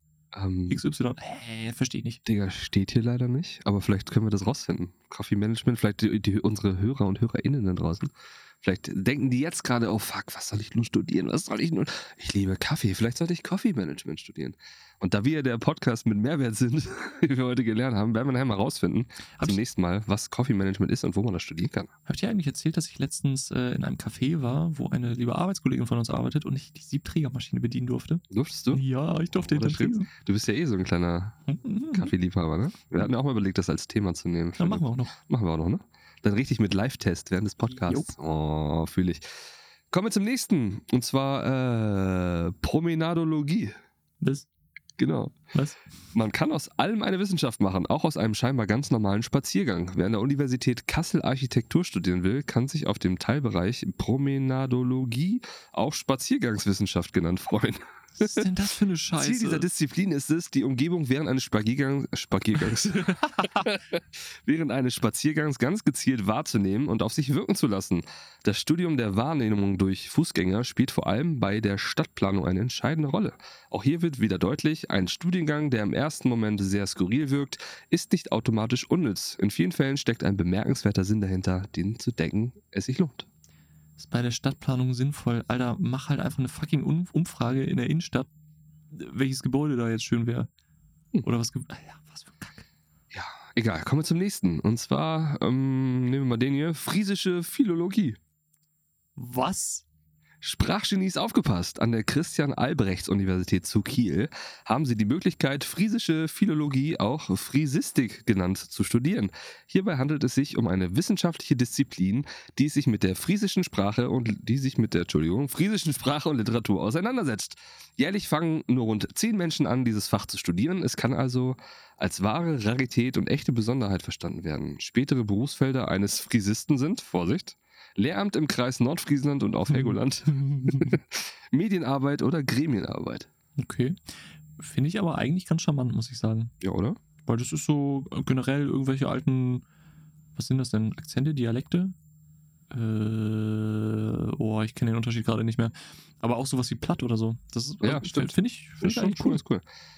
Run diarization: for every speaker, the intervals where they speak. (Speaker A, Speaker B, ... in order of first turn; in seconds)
Speaker A: 0.3-0.8, 2.3-21.9, 28.3-28.8, 29.4-39.3, 39.9-43.8, 45.0-45.4, 46.1-58.5, 59.2-83.3, 93.1-98.2, 100.4-133.3, 136.6-137.0, 147.8-149.7
Speaker B: 0.7-2.2, 22.1-30.1, 31.5-32.1, 34.6-35.2, 37.7-38.1, 44.2-44.5, 45.5-45.8, 58.2-59.7, 63.0-63.7, 84.0-88.3, 88.9-90.5, 91.2-92.7, 99.2-99.8, 129.7-131.0, 133.6-134.0, 134.6-136.5, 137.3-139.6, 140.4-141.9, 142.7-149.4